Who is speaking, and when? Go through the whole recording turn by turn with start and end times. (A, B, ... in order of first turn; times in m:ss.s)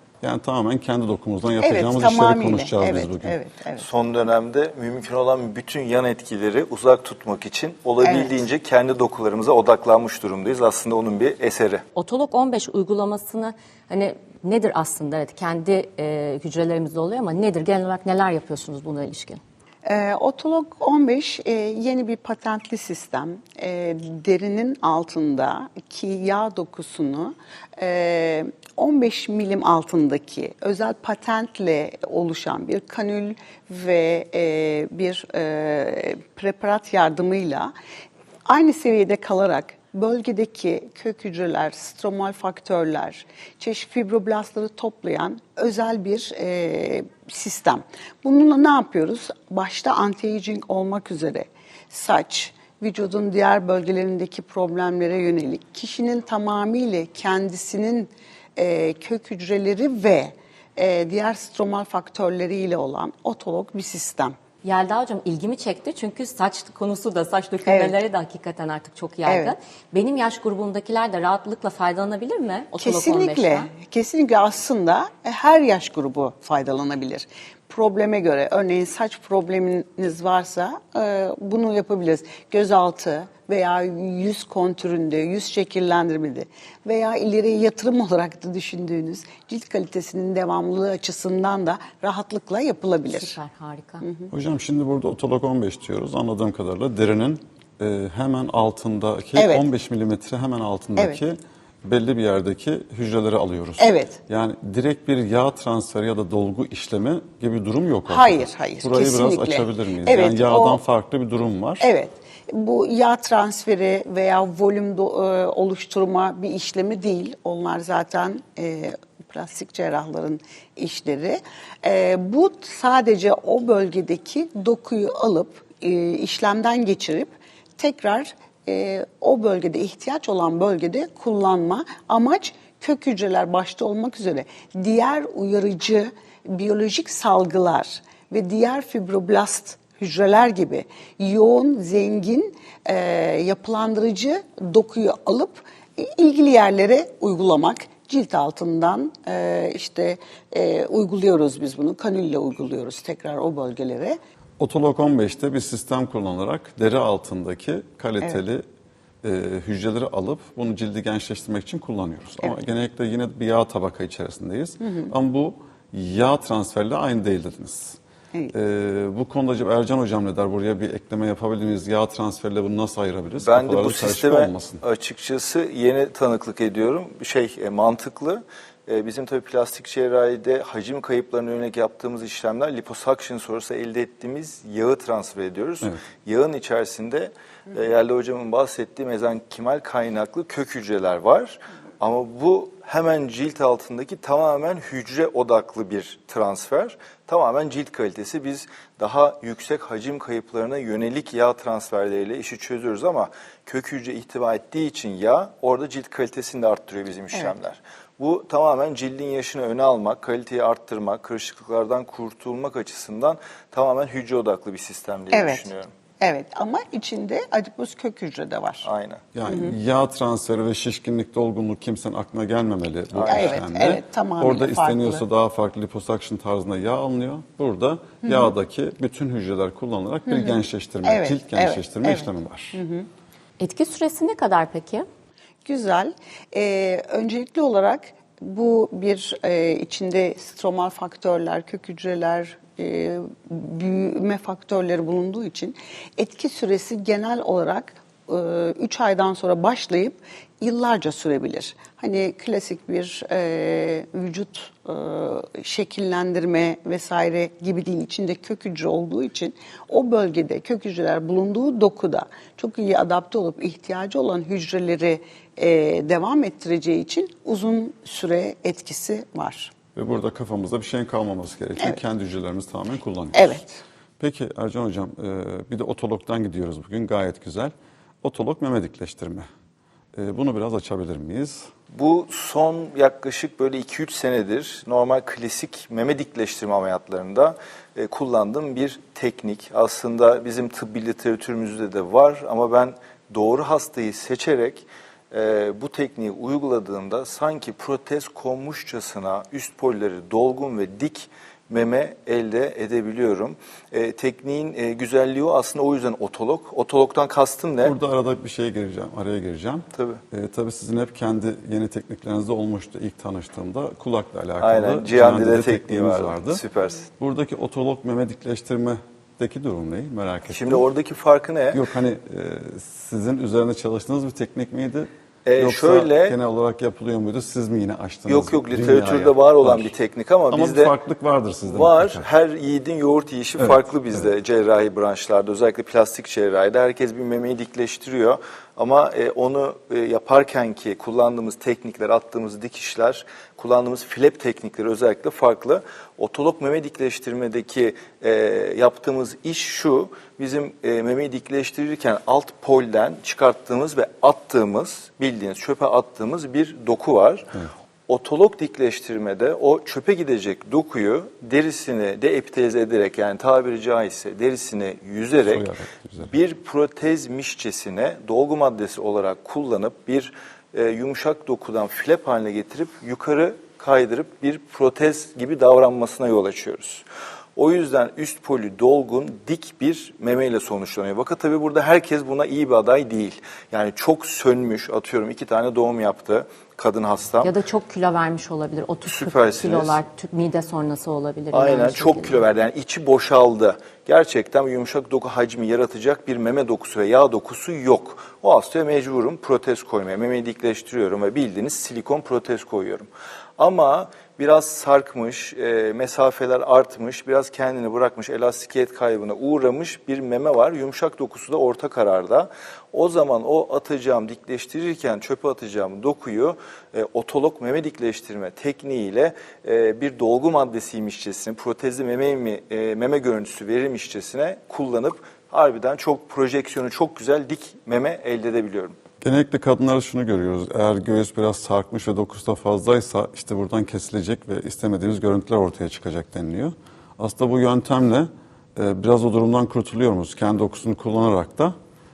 0:00.2-0:03.3 A
0:01.6-0:03.8 B
0:03.8-0:11.8 C
0:08.0-0:08.4 B
0:12.0-0:19.4 D
0:19.8-0:37.7 B
0:38.4-1:04.4 B
1:04.6-1:13.7 D
1:07.7-1:07.9 B
1:09.2-1:09.5 B
1:12.8-1:33.3 B
1:33.1-1:34.0 D
1:34.0-1:34.3 B
1:34.3-1:51.9 A
1:39.4-1:39.6 B
1:43.8-1:44.2 B
1:48.1-1:50.8 B
1:51.8-2:34.2 B
2:34.6-2:38.6 A
2:39.2-2:48.0 A
2:44.8-2:45.1 B
2:48.5-2:54.8 A
2:53.4-3:35.9 C
3:35.3-3:35.7 B
3:36.2-3:38.9 B
3:38.8-3:39.2 C
3:39.3-3:52.8 A
3:39.4-3:39.7 B
3:43.1-3:43.6 C
3:43.3-3:45.2 B
3:48.2-3:48.5 B
3:50.3-3:53.1 B
3:53.6-3:55.0 D
3:55.6-4:29.7 B
4:29.9-4:33.5 A
4:33.3-4:33.8 B
4:34.2-4:39.4 A
4:40.2-4:41.7 A
4:41.9-5:08.0 C
5:07.8-5:16.6 A
5:10.0-5:10.2 C
5:14.6-5:17.1 C
5:17.2-5:20.8 A
5:20.5-5:21.8 C
5:21.7-5:29.9 A
5:25.4-5:26.4 C
5:28.3-5:30.9 C
5:30.5-5:32.2 A
5:31.6-5:57.5 C
5:33.6-5:34.3 A
5:58.1-6:05.6 C
6:05.4-6:06.3 A
6:06.2-6:17.0 C
6:17.6-6:27.5 C
6:27.4-6:32.4 D
6:29.0-6:30.0 C
6:31.5-7:09.0 C
7:09.2-7:21.7 A